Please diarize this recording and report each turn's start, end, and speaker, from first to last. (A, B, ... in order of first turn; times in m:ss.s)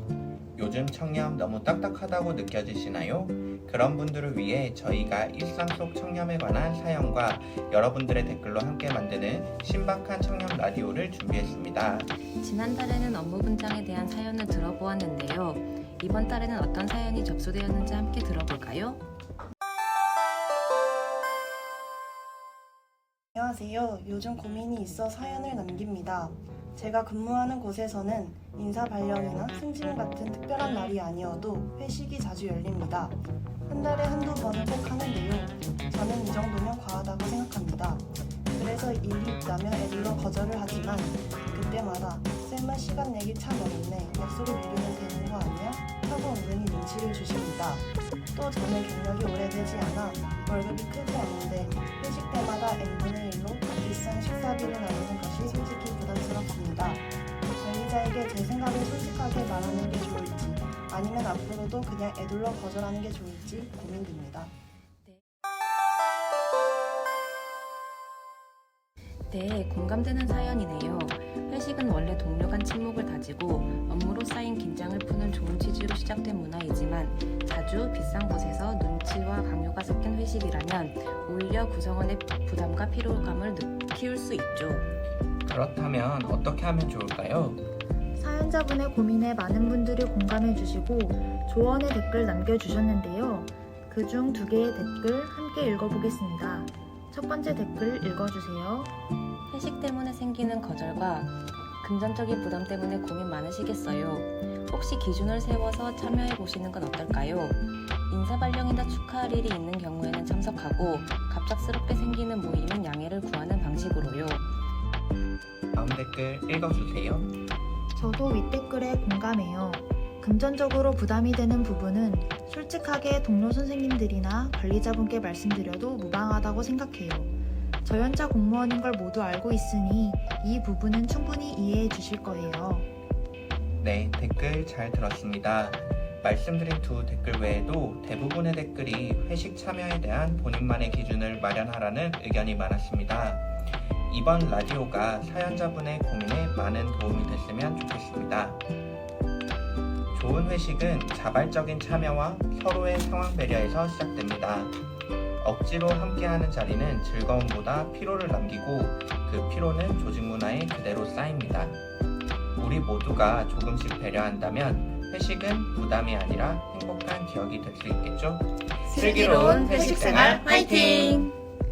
0:00.6-0:12.1 A
0:12.4-0:19.0 B
0:23.4-1:04.5 C
1:09.3-1:24.9 B
1:25.4-1:27.6 A
1:28.2-1:38.9 D
1:39.5-1:54.4 B
1:55.7-1:57.3 A
1:58.0-2:07.3 D
2:07.8-2:12.9 D
2:13.8-2:28.6 A
2:30.1-2:34.8 A
2:35.4-2:41.8 A
2:42.6-2:50.5 A
2:48.9-2:51.3 B
2:49.4-2:51.3 D